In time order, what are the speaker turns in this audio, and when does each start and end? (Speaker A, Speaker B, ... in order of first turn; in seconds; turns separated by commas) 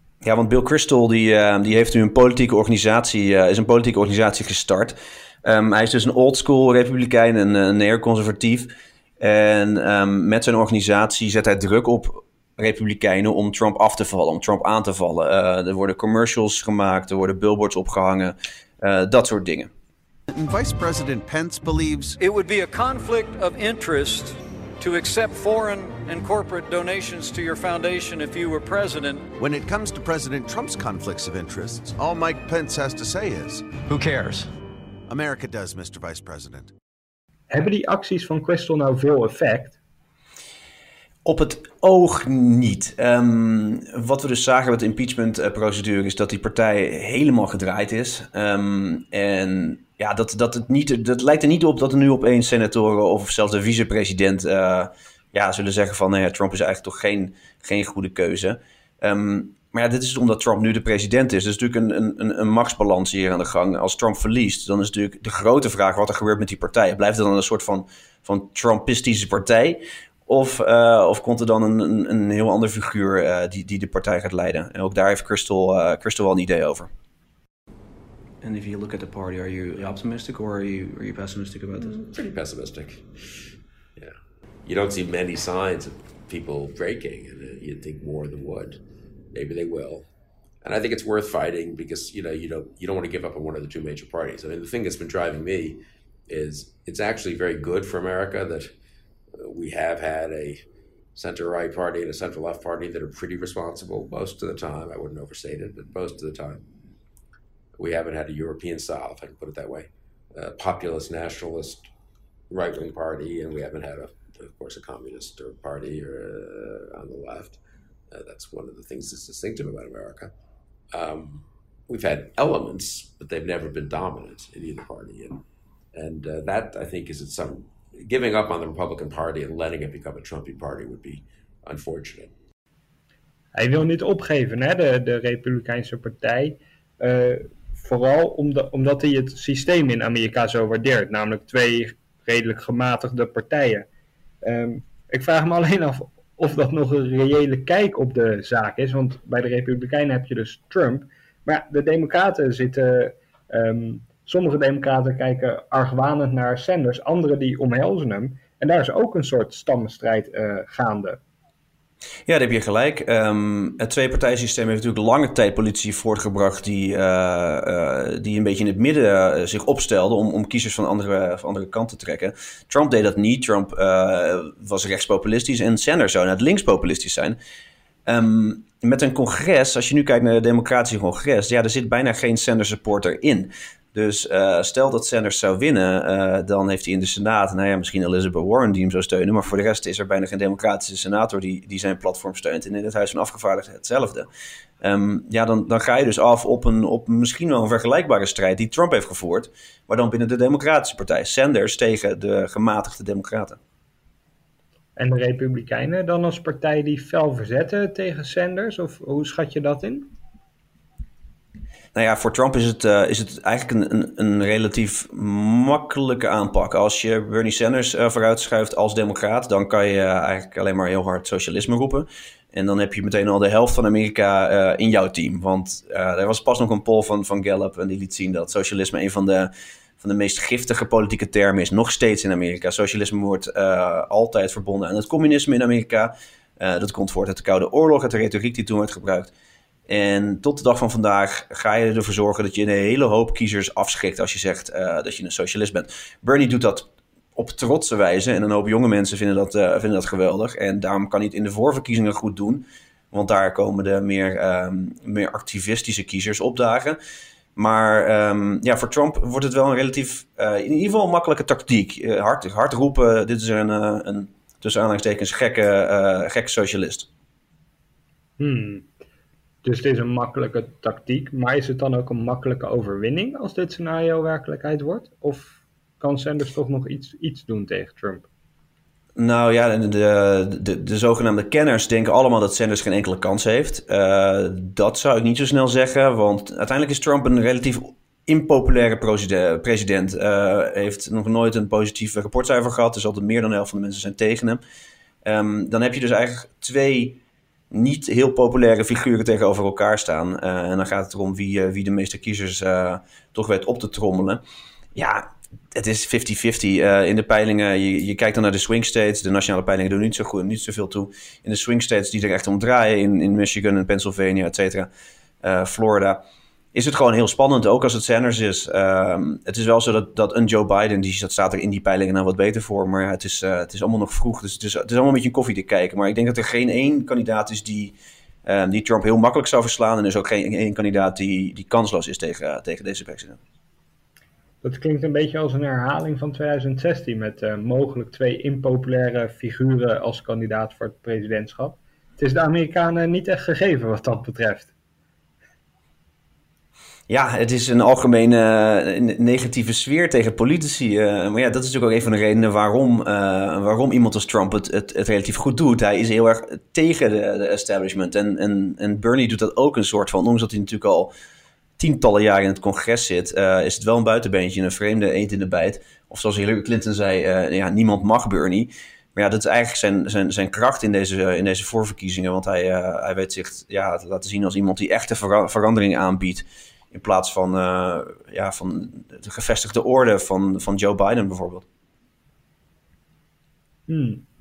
Speaker A: 0.2-19.7, Speaker B: 20.3-22.2, Speaker C: 22.2-29.3, Speaker B: 29.4-33.9, Speaker C: 33.9-34.5, Speaker B: 35.1-36.7, Speaker D: 37.5-39.8, Speaker A: 41.2-76.9, Speaker A: 78.4-82.0, Speaker E: 81.9-83.0, Speaker E: 84.7-88.8, Speaker E: 89.3-90.1, Speaker E: 90.6-98.7, Speaker E: 99.4-100.6, Speaker E: 101.2-106.6, Speaker E: 107.8-111.9, Speaker E: 112.5-117.6, Speaker E: 118.1-120.3, Speaker E: 120.9-125.4, Speaker E: 126.0-132.3, Speaker D: 133.6-143.9, Speaker D: 144.4-161.2, Speaker A: 162.3-177.4, Speaker A: 178.1-194.3, Speaker A: 194.8-203.6, Speaker D: 205.0-210.1, Speaker A: 211.9-239.3, Speaker A: 239.9-257.0, Speaker A: 257.6-267.1, Speaker D: 268.4-268.9, Speaker D: 269.6-278.3, Speaker A: 279.2-294.6, Speaker A: 295.2-297.2, Speaker A: 297.7-304.4, Speaker A: 304.9-314.9, Speaker A: 315.4-316.2, Speaker A: 316.7-327.9, Speaker A: 328.5-333.4, Speaker D: 334.6-344.7, Speaker A: 347.1-361.1, Speaker A: 361.8-381.6, Speaker D: 383.9-384.2